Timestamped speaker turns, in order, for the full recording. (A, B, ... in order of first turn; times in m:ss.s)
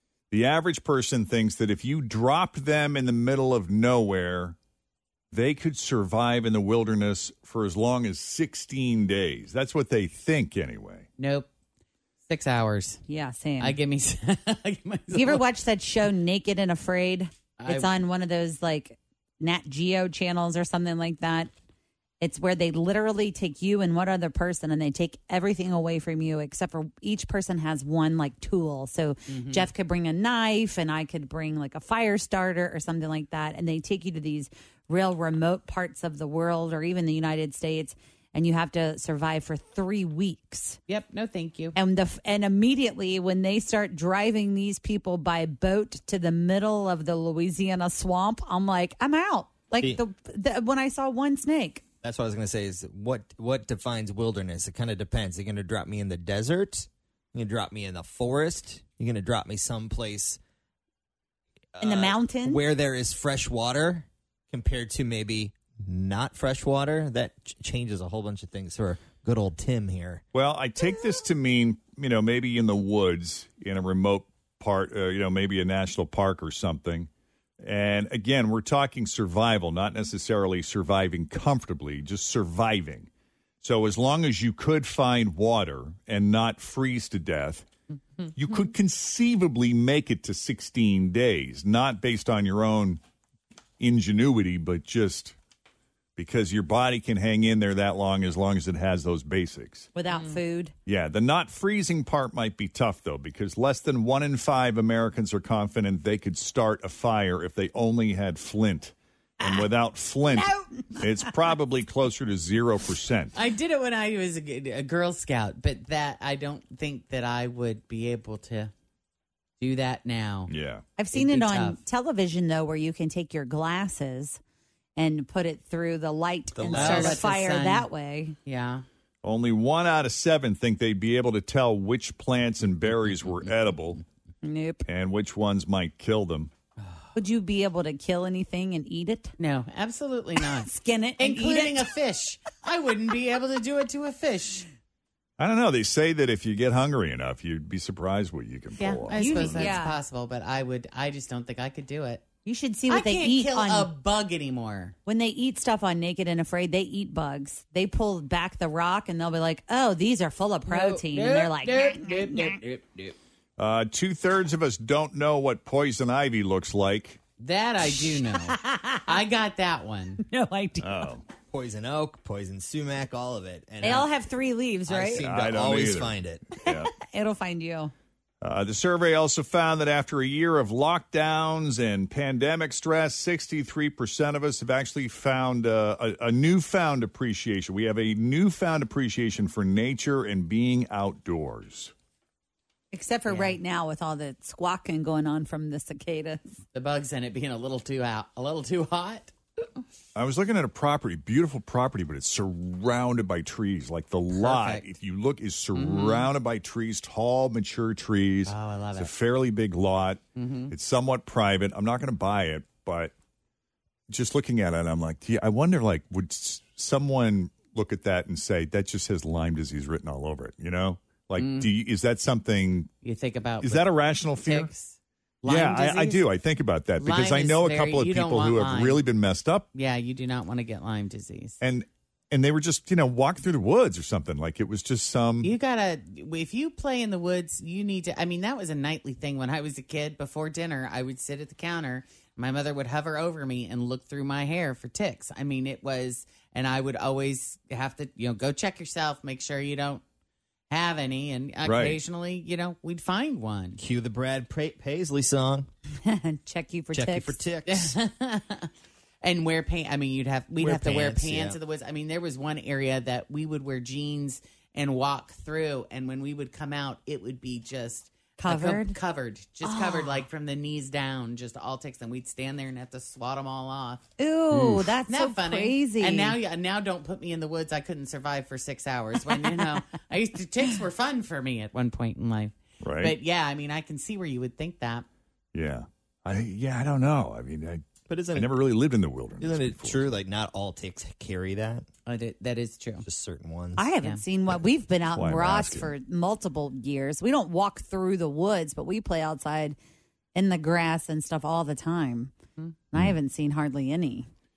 0:00.3-0:04.6 A
0:05.3-0:11.1 A
0:11.2-0:11.5 B
0:12.3-0:13.0 B
0:13.1-0:13.8 C
0:13.6-0:15.5 B
0:15.1-0:21.5 C
0:17.6-0:18.0 B
0:22.2-0:40.8 C
0:29.3-0:29.7 B
0:40.9-0:41.8 B
0:41.8-0:51.8 C
0:49.8-0:50.0 D
0:52.0-1:00.4 D
1:01.7-1:10.2 D
1:01.8-1:02.6 C
1:10.3-1:17.1 A
1:17.6-1:23.1 A
1:23.6-1:27.7 A
1:28.3-1:33.0 A
1:33.8-1:35.4 A
1:36.2-1:39.9 A
1:39.9-1:40.7 C
1:40.1-1:40.4 B
1:40.8-1:53.3 A
1:49.4-1:49.7 C
1:50.2-1:51.3 C
1:53.3-1:58.7 B
1:59.6-2:00.5 B
2:00.5-2:00.8 A
2:01.0-2:04.4 C
2:01.1-2:01.8 B
2:05.0-2:08.3 C
2:06.6-2:07.2 D
2:06.6-2:07.9 B
2:08.4-2:08.8 B
2:09.2-2:14.0 A
2:14.4-2:14.8 C
2:14.8-2:16.5 A
2:17.1-2:19.3 C
2:19.4-2:24.7 B
2:20.5-2:21.9 C
2:25.4-2:29.8 A
2:28.8-2:32.2 B
2:29.1-2:30.0 C
2:32.4-2:33.9 C
2:32.9-2:35.0 B
2:35.0-2:42.6 C
2:40.7-2:43.1 B
2:43.6-2:47.2 A
2:47.4-2:50.2 B
2:48.2-2:49.1 C
2:50.2-2:51.0 C
2:50.8-2:51.2 A
2:51.5-2:54.1 D
2:53.8-2:55.3 C
2:54.9-2:56.4 D
2:55.1-2:56.9 A
2:56.6-2:57.9 C
2:58.4-3:11.9 A
3:12.9-3:16.6 C
3:13.2-3:13.6 B
3:16.7-3:19.3 B
3:20.1-3:33.1 A
3:24.3-3:24.9 B
3:25.7-3:26.3 B
3:28.4-3:29.1 B
3:30.4-3:30.7 B
3:34.1-3:42.9 A
3:41.4-3:41.7 B
3:43.0-3:46.2 B
3:43.6-3:44.7 A
3:45.4-3:49.6 A
3:47.0-3:49.0 B
3:49.7-3:51.6 B
3:51.6-3:55.5 A
3:55.4-4:10.0 B
4:10.7-4:13.8 B
4:11.6-4:12.0 A
4:13.8-4:15.7 D
4:16.0-4:17.4 C
4:16.9-4:17.9 D
4:17.6-4:18.7 B
4:19.2-4:34.0 B
4:20.6-4:21.6 D
4:28.4-4:29.0 C
4:29.6-4:30.2 C
4:34.2-4:36.4 C
4:34.5-4:34.9 A
4:35.1-4:45.0 B
4:42.8-4:43.2 A
4:45.5-4:50.2 A
4:48.1-4:48.6 D
4:49.4-4:51.9 D
4:52.0-4:53.0 B
4:53.0-4:53.9 D
4:53.8-4:59.8 C
4:55.0-4:55.9 A
5:00.3-5:02.3 C
5:02.9-5:04.3 C